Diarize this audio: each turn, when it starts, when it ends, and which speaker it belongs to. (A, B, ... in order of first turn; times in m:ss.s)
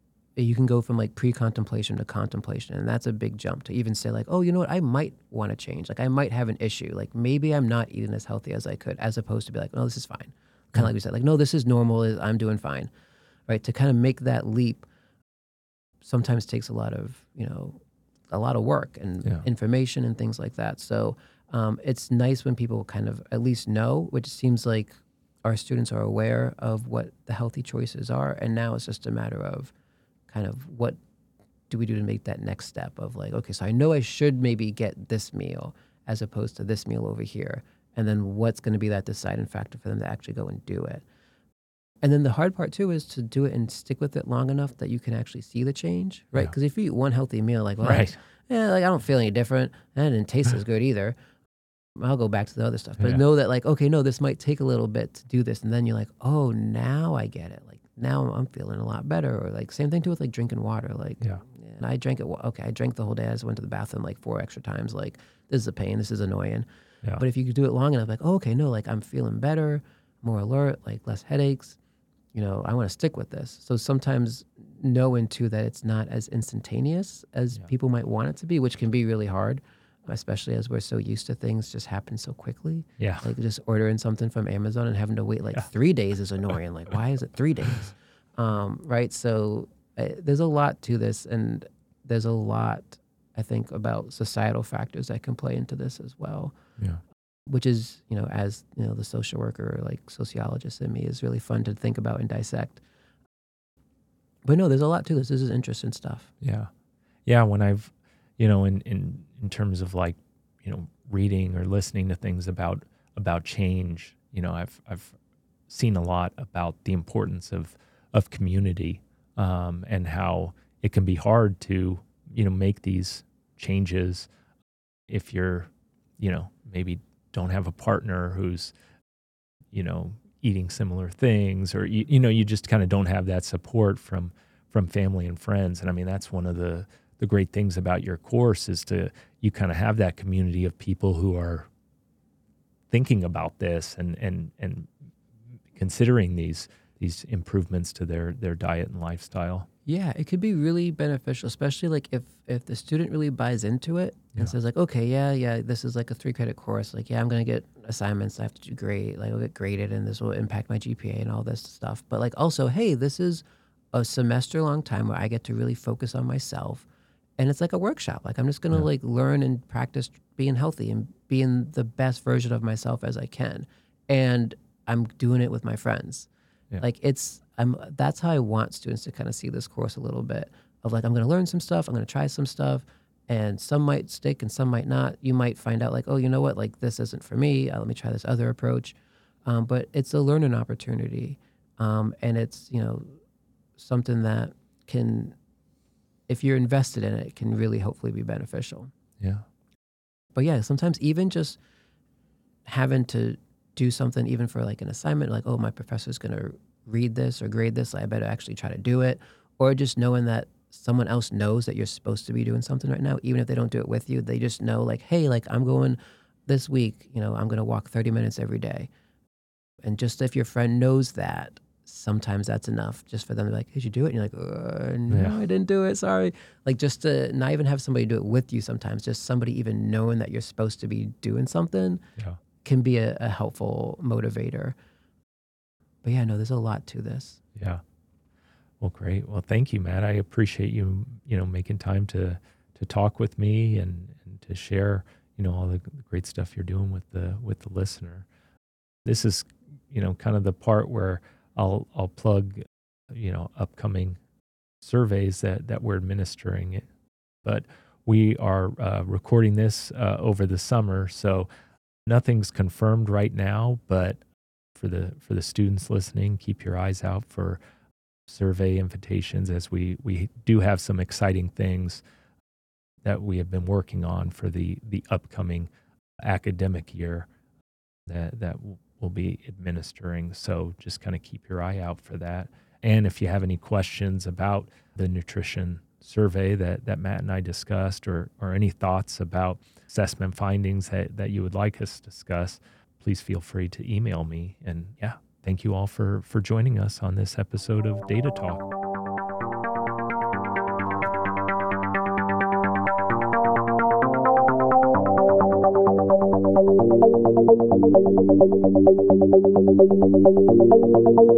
0:00.4-0:12.9 A
0:13.5-0:14.9 A
0:16.0-0:29.7 A
0:30.3-0:31.0 A
0:31.7-0:41.0 A
0:42.0-0:51.2 A
0:47.8-0:48.2 B
0:52.0-1:11.8 A
1:12.3-1:36.6 A
1:23.0-1:23.3 B
1:37.5-1:42.8 A
1:44.4-1:46.3 A
1:46.4-1:46.7 B
1:47.2-1:55.2 B
1:55.7-2:04.3 B
2:05.1-2:08.7 B
2:09.7-2:21.7 B
2:22.9-2:24.9 B
2:25.7-2:29.7 B
2:29.9-2:46.9 A
2:47.4-3:13.1 A
3:13.8-3:15.4 A
3:16.3-3:18.9 A
3:19.2-3:19.4 B
3:20.3-3:21.6 A
3:22.6-3:38.9 A
3:39.8-3:52.0 A
3:45.1-3:45.4 B
3:52.6-3:54.8 A
3:56.0-3:57.4 A
3:57.6-3:57.8 B
3:58.8-4:08.3 B
4:09.0-4:14.2 B
4:14.8-4:16.9 B
4:17.4-4:21.5 B
4:22.0-4:24.2 B
4:24.8-4:27.6 B
4:28.3-4:32.0 B
4:33.0-4:35.7 B
4:36.2-4:37.3 B
4:38.0-4:58.7 B